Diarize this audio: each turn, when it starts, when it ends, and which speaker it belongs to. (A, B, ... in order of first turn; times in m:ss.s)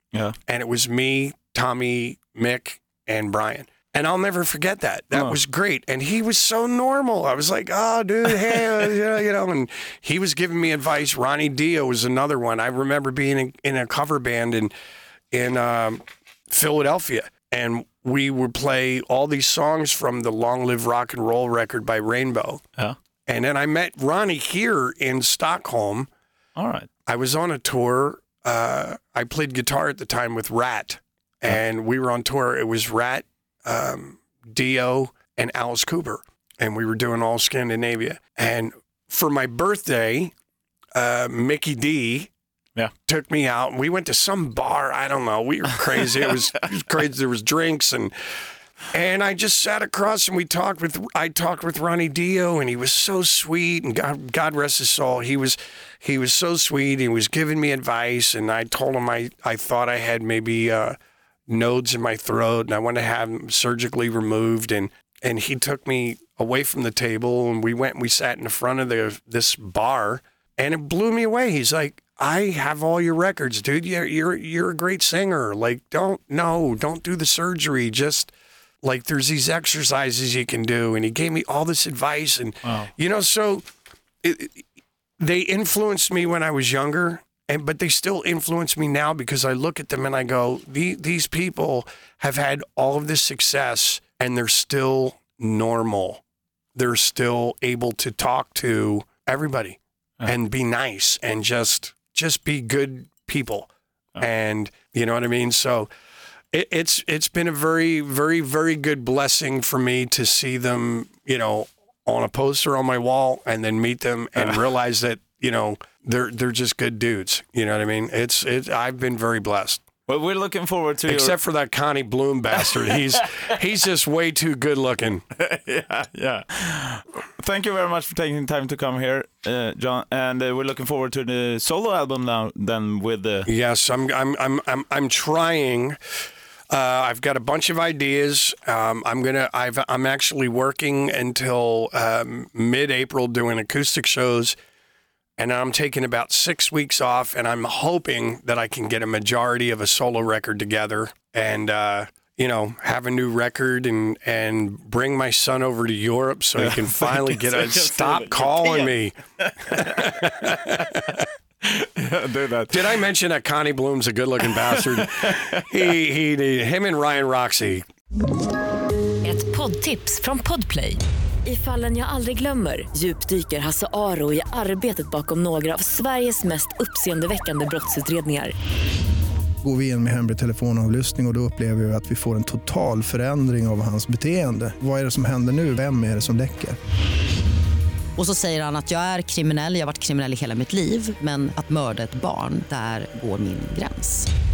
0:00.5-0:14.7 A
0:15.3-0:22.6 A
0:23.3-0:26.1 A
0:26.6-0:26.9 B
0:27.0-0:40.3 A
0:40.9-0:42.3 A
0:43.1-0:48.1 A
0:48.9-1:01.0 A
1:01.5-1:23.6 A
1:22.6-1:22.9 B
1:24.2-1:24.6 A
1:25.2-1:36.2 A
1:36.7-1:45.9 A
1:46.5-1:59.8 A
2:00.1-2:01.4 B
2:01.1-2:05.2 A
2:05.4-2:13.5 B
2:13.5-2:16.0 A
2:16.7-2:24.6 A
2:25.4-2:39.1 A
2:36.6-2:42.8 B
2:39.7-2:41.2 A
2:42.7-2:47.8 A
2:44.4-2:45.6 B
2:49.2-2:58.5 C
2:59.6-3:06.8 D
3:08.2-3:14.3 E